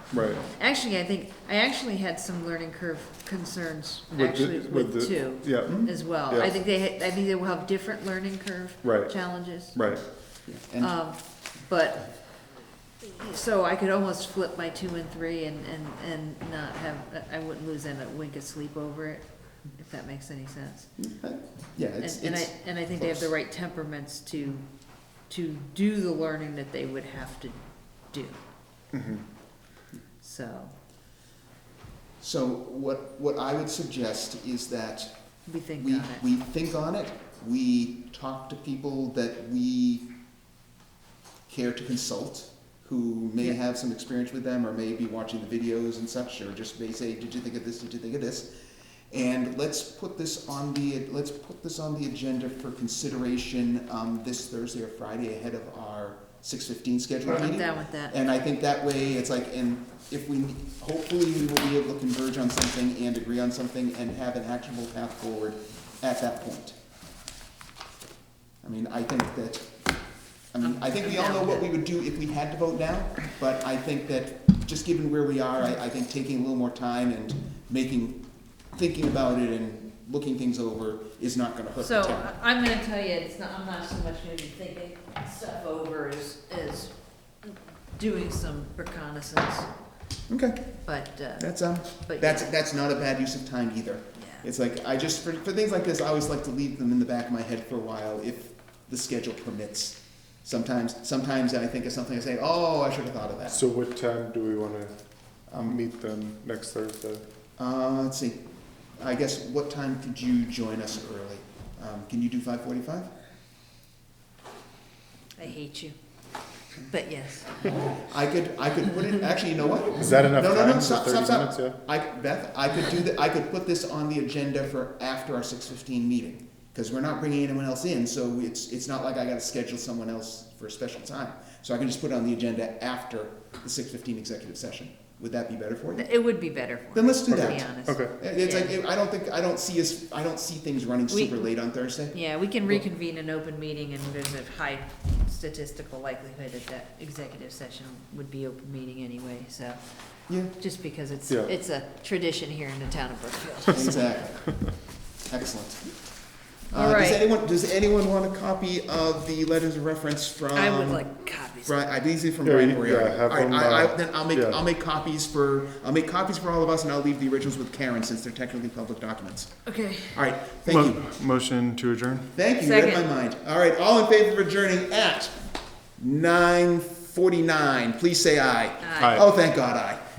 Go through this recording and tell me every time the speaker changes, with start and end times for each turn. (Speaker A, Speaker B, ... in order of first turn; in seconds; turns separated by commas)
Speaker A: 0.1-0.4, Speaker B: 0.4-9.8, Speaker A: 4.1-6.5, Speaker C: 5.6-5.9, Speaker A: 8.8-10.0, Speaker C: 10.4-10.9, Speaker B: 10.8-12.2, Speaker B: 13.0-20.9, Speaker C: 21.0-23.3, Speaker B: 22.0-28.4, Speaker A: 28.9-29.2, Speaker B: 30.2-30.7, Speaker C: 32.2-35.2, Speaker B: 35.5-36.2, Speaker C: 35.8-40.1, Speaker C: 41.5-48.5, Speaker C: 49.1-66.8, Speaker B: 57.2-58.1, Speaker C: 68.6-69.7, Speaker C: 70.5-82.3, Speaker B: 70.6-71.7, Speaker B: 81.8-89.7, Speaker C: 90.3-90.8, Speaker B: 90.8-92.5, Speaker C: 91.4-103.6, Speaker B: 94.2-94.5, Speaker A: 103.5-104.9, Speaker C: 105.5-105.8, Speaker A: 105.5-107.2, Speaker C: 107.6-108.4, Speaker C: 109.0-113.1, Speaker B: 115.4-115.9, Speaker B: 116.8-117.8, Speaker C: 117.8-136.2, Speaker A: 120.0-121.8, Speaker B: 135.9-138.7, Speaker C: 136.9-142.8, Speaker A: 137.3-138.1, Speaker B: 141.1-141.5, Speaker B: 142.1-149.8, Speaker C: 150.3-150.5, Speaker B: 150.5-154.0, Speaker C: 153.7-154.7, Speaker C: 155.3-155.9, Speaker C: 156.7-161.1, Speaker B: 156.7-157.2, Speaker B: 160.5-161.7, Speaker C: 161.6-169.6, Speaker A: 162.4-164.6, Speaker B: 169.7-170.2, Speaker C: 170.1-171.1, Speaker A: 170.7-172.3, Speaker C: 172.3-175.3, Speaker B: 172.6-173.1, Speaker C: 176.0-180.0, Speaker B: 178.8-179.2